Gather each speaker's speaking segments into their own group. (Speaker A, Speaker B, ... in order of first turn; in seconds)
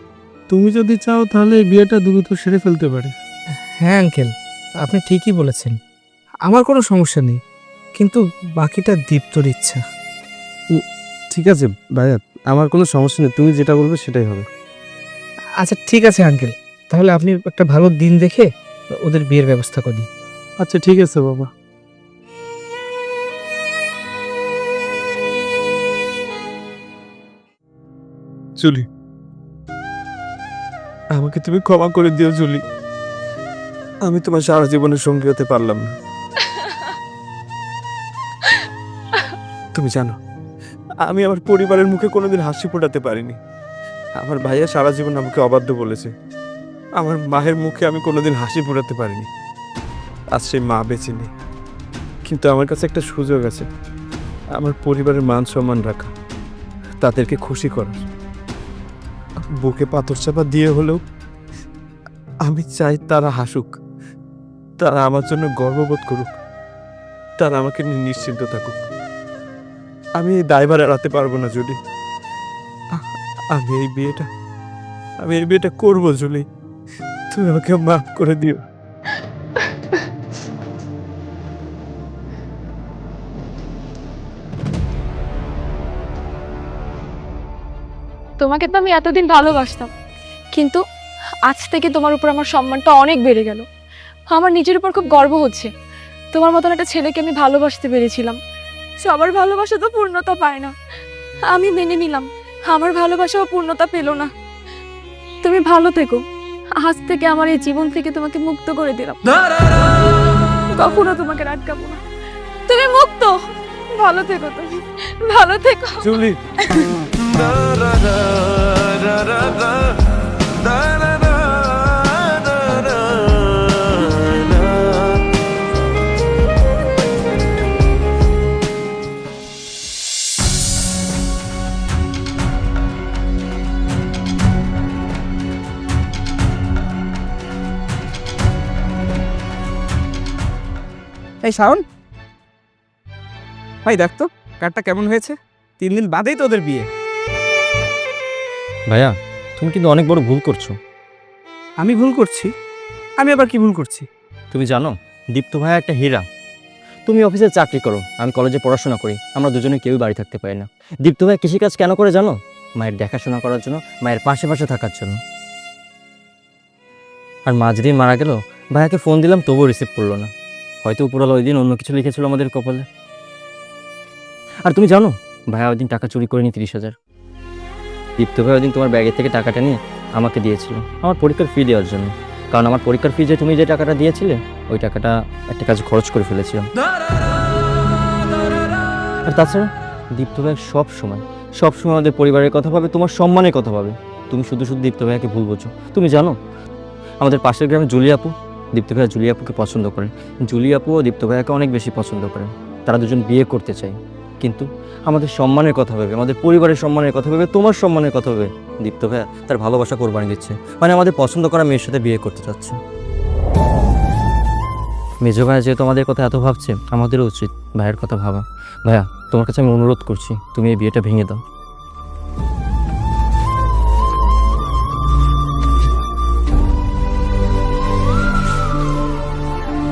Speaker A: 0.5-3.1, 20.6-21.5
Speaker B: 3.8-5.8, 6.5-7.4, 8.0-9.8, 15.6-18.5, 19.0-20.1, 141.4-141.8, 143.8-146.9, 151.8-152.5, 153.2-154.1
Speaker C: 11.3-14.5, 28.6-28.9, 31.1-32.6, 34.1-35.9, 39.7-40.2, 41.0-43.4, 44.2-46.1, 47.0-49.3, 50.3-51.3, 52.2-53.7, 54.5-56.1, 57.0-58.1, 59.6-61.0, 62.5-63.8, 64.8-66.4, 67.4-68.8, 70.2-71.8, 73.0-74.3, 75.2-76.5, 77.3-78.6, 116.0-116.4
Speaker D: 36.4-36.9, 88.4-89.9, 90.5-90.8, 91.5-93.7, 94.3-95.7, 96.3-98.4, 99.0-100.7, 101.5-104.3, 105.4-106.2, 106.8-109.9, 110.7-112.0, 112.7-113.4, 114.0-116.9
Speaker E: 148.9-150.8, 154.5-156.2, 157.1-165.2, 167.5-170.3, 170.8-172.9, 174.7-176.9, 178.2-186.7, 189.3-196.3, 197.2-212.8, 215.2-221.4